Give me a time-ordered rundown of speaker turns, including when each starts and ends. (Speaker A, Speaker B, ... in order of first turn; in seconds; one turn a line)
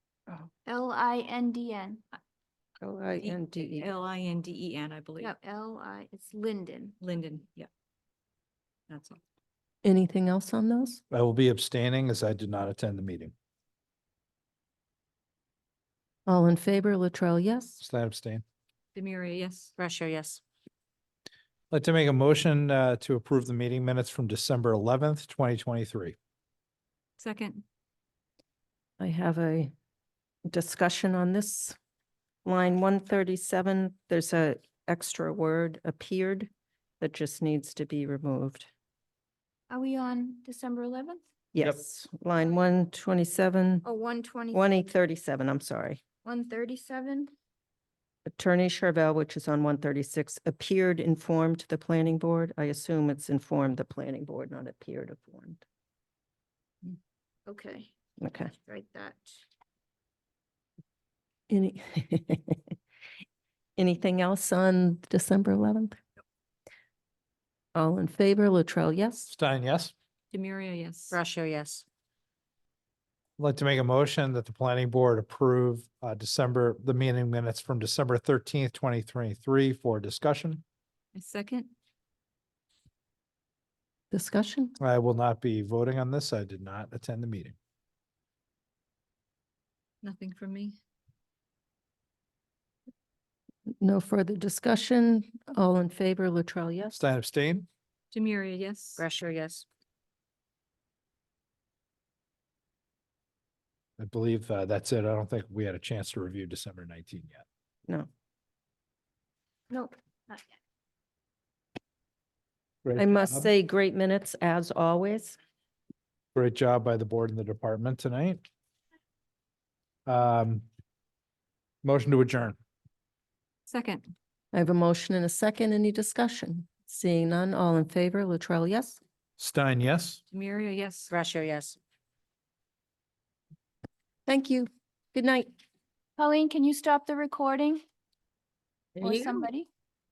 Speaker A: 0.7-2.0
Speaker B: 2.8-3.9
Speaker C: 3.2-5.3
Speaker A: 5.4-7.0
Speaker C: 7.0-7.7
Speaker C: 8.9-9.2
Speaker B: 9.8-11.0
Speaker D: 11.1-13.3
Speaker B: 16.2-17.8
Speaker D: 17.8-18.4
Speaker C: 18.9-19.7
Speaker E: 19.8-20.4
Speaker D: 21.7-26.1
Speaker C: 27.2-27.6
Speaker B: 29.0-29.7
Speaker B: 30.5-31.8
Speaker B: 32.4-38.7
Speaker A: 39.7-41.2
Speaker B: 41.5-43.9
Speaker A: 43.8-44.6
Speaker B: 44.5-46.0
Speaker A: 46.2-47.3
Speaker B: 48.3-55.6
Speaker A: 57.5-57.9
Speaker B: 58.2-58.5
Speaker A: 58.7-59.2
Speaker B: 61.5-62.6
Speaker B: 63.8-66.0
Speaker B: 67.7-69.3
Speaker D: 69.3-69.9
Speaker C: 70.3-71.2
Speaker E: 71.1-71.8
Speaker D: 73.4-80.6
Speaker C: 81.1-81.7
Speaker B: 84.1-84.7
Speaker D: 84.8-87.5
Speaker C: 90.0-90.8
Speaker B: 93.8-96.9
Speaker D: 96.9-97.7
Speaker C: 98.1-99.0
Speaker E: 99.0-99.6
Speaker D: 104.0-107.4
Speaker A: 109.7-110.5
Speaker D: 112.8-113.5
Speaker B: 113.0-115.4
Speaker D: 116.3-118.5
Speaker D: 120.0-120.6
Speaker D: 121.8-122.6
Speaker C: 123.7-124.0
Speaker B: 124.5-129.0
Speaker D: 129.4-130.2
Speaker C: 130.3-131.1
Speaker E: 131.1-131.8
Speaker B: 134.2-135.5
Speaker A: 136.2-137.8
Speaker A: 139.0-139.7
Speaker B: 139.0-139.5